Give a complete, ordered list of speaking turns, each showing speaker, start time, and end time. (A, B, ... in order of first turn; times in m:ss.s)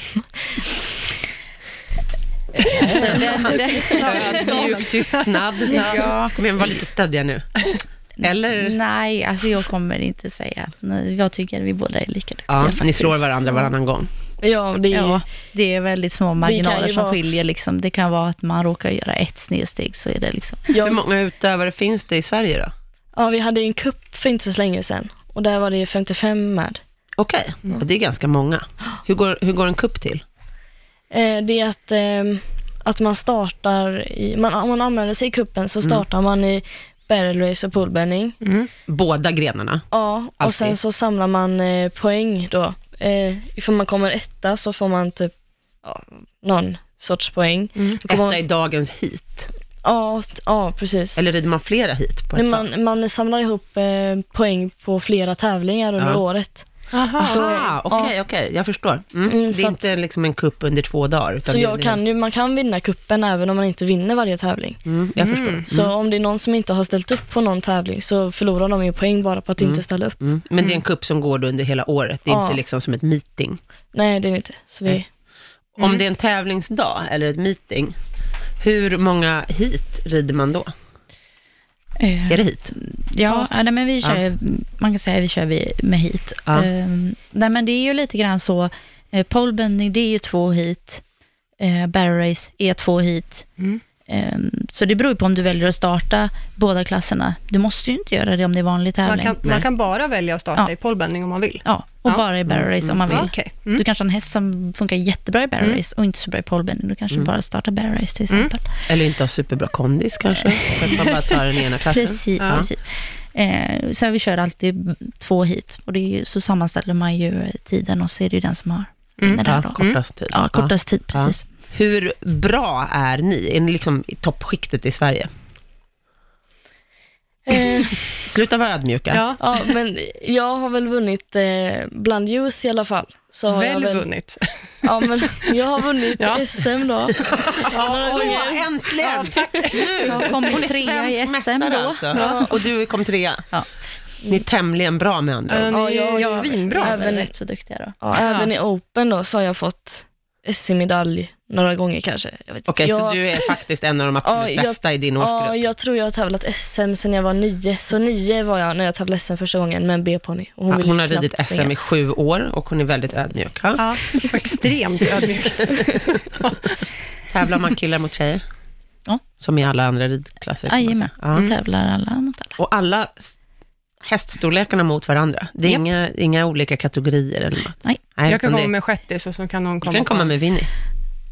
0:02.8-0:06.0 A
0:02.8-0:04.6 B
0:02.9-0:04.4 C
0:02.9-0:08.8 D
0:05.7-0:06.4 B
0:08.2-0:13.6 B
0:12.5-0:14.1 D
0:14.4-0:15.2 C
0:14.9-0:20.7 B
0:16.4-0:17.2 C
0:20.7-0:21.0 C
0:20.8-0:22.7 D
0:23.1-0:26.8 C
0:27.2-0:30.2 D
0:31.1-0:38.4 C
0:38.4-0:38.7 A
0:38.9-0:39.9 D
0:39.9-0:48.4 C
0:40.4-0:40.8 D
0:47.8-0:48.0 A
0:48.1-0:49.5 D
0:49.8-0:51.2 C
0:51.2-0:52.7 D
0:52.3-0:58.1 C
0:56.9-0:57.8 A
0:57.2-1:02.0 D
0:59.3-0:59.9 C
1:01.5-1:04.8 C
1:04.8-1:05.9 D
1:05.2-1:05.7 A
1:05.7-1:10.2 C
1:09.6-1:13.6 D
1:12.3-1:12.6 C
1:13.9-1:15.1 C
1:15.8-1:18.0 D
1:18.6-1:20.7 D
1:22.0-1:31.0 B
1:22.3-1:22.7 D
1:31.6-1:33.5 B
1:34.1-1:39.4 B
1:39.0-1:42.2 A
1:41.6-1:48.7 B
1:42.5-1:43.2 D
1:43.1-1:43.8 A
1:48.9-1:52.7 D
1:50.4-1:50.9 B
1:51.9-2:01.4 B
1:52.4-1:52.7 A
1:59.2-2:00.0 A
1:59.4-2:05.3 D
2:07.5-2:08.0 C
2:08.1-2:09.2 D
2:09.1-2:09.4 A
2:09.4-2:14.1 C
2:13.5-2:15.0 A
2:14.8-2:18.7 C
2:16.2-2:16.5 A
2:17.2-2:23.5 D
2:17.7-2:20.4 A
2:20.1-2:22.5 B
2:22.1-2:22.5 A
2:24.2-2:25.7 D
2:25.5-2:27.0 A
2:25.7-2:27.3 C
2:26.1-2:28.0 B
2:28.0-2:33.5 C
2:28.2-2:28.5 A
2:32.7-2:35.6 D
2:34.2-2:41.7 C
2:40.7-2:44.3 D
2:43.8-2:46.6 A
2:47.3-2:48.4 D
2:49.4-2:51.5 D
2:50.7-2:52.6 B
2:52.6-2:53.3 D
2:54.0-2:58.7 D
2:55.6-2:55.9 B
2:58.2-3:00.3 A
2:59.8-3:00.7 D